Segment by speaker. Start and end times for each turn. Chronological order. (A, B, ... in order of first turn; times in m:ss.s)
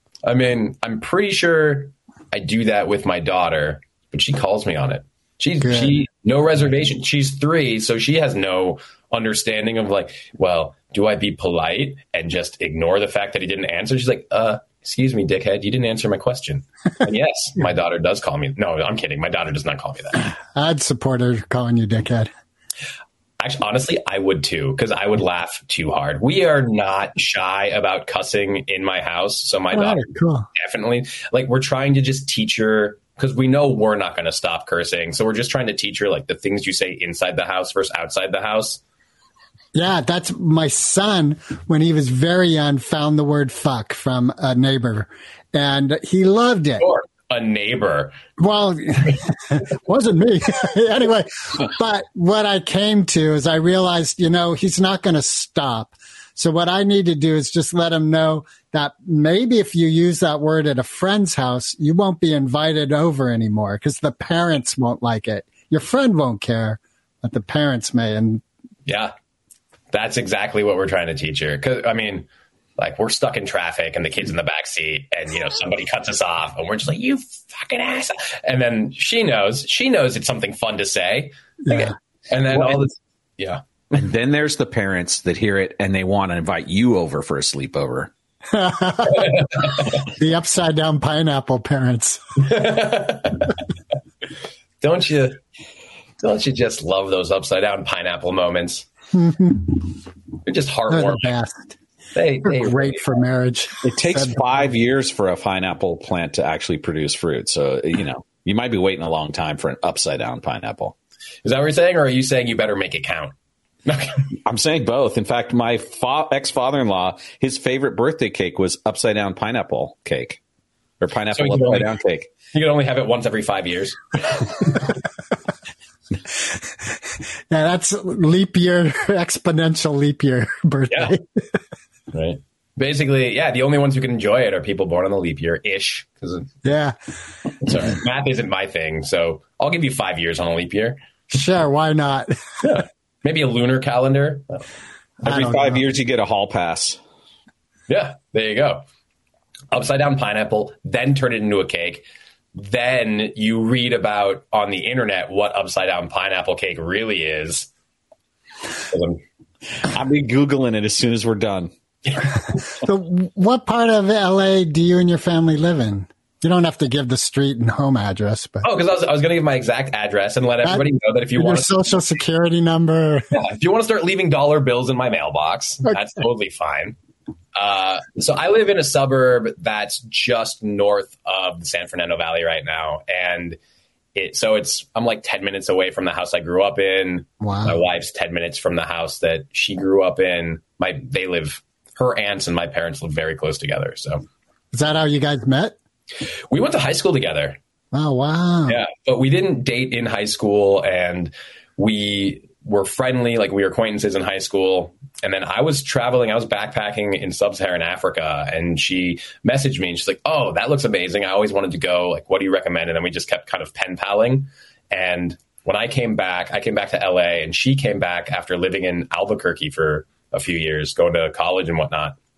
0:00.2-0:20.2 A
0:05.6-0:06.0 B
0:20.5-0:22.3 B
0:23.4-0:38.8 A
0:29.7-0:30.5 B
0:39.7-0:46.8 B
0:46.8-0:48.2 A
0:48.4-1:08.4 B
1:08.9-1:09.1 A
1:09.9-1:12.3 A
1:12.8-1:23.6 A
1:21.6-1:21.9 B
1:22.5-1:22.8 C
1:24.0-1:28.1 C
1:28.5-1:29.5 B
1:29.3-1:29.6 A
1:30.1-1:32.2 B
1:32.4-1:33.5 A
1:34.8-1:35.4 A
1:36.2-1:38.9 A
1:39.1-1:39.9 B
1:40.5-1:41.3 A
1:40.9-1:41.8 B
1:42.2-1:43.0 A
1:42.4-1:44.6 B
1:43.8-1:51.0 C
1:51.4-1:53.3 A
1:53.9-1:54.2 A
1:54.5-2:00.4 C
2:01.0-2:02.3 C
2:01.3-2:01.9 A
2:02.5-2:04.7 A
2:07.5-2:11.6 B
2:12.1-2:16.5 A
2:16.6-2:17.0 B
2:17.6-2:21.0 A
2:21.3-2:22.4 B
2:22.6-2:24.6 A
2:25.2-2:25.8 B
2:25.2-2:27.0 C
2:27.9-2:28.8 A
2:29.7-2:32.0 A
2:32.6-2:37.7 A
2:38.9-2:39.2 A
2:39.8-2:41.7 C
2:42.7-2:48.6 B
2:48.6-2:51.7 A
2:50.6-2:53.3 B
2:53.3-2:57.0 A
2:57.6-3:03.6 A
3:04.2-3:14.2 A
3:07.4-3:07.8 B
3:14.7-3:15.8 B
3:16.5-3:17.6 A
3:17.9-3:18.8 B
3:18.7-3:42.2 A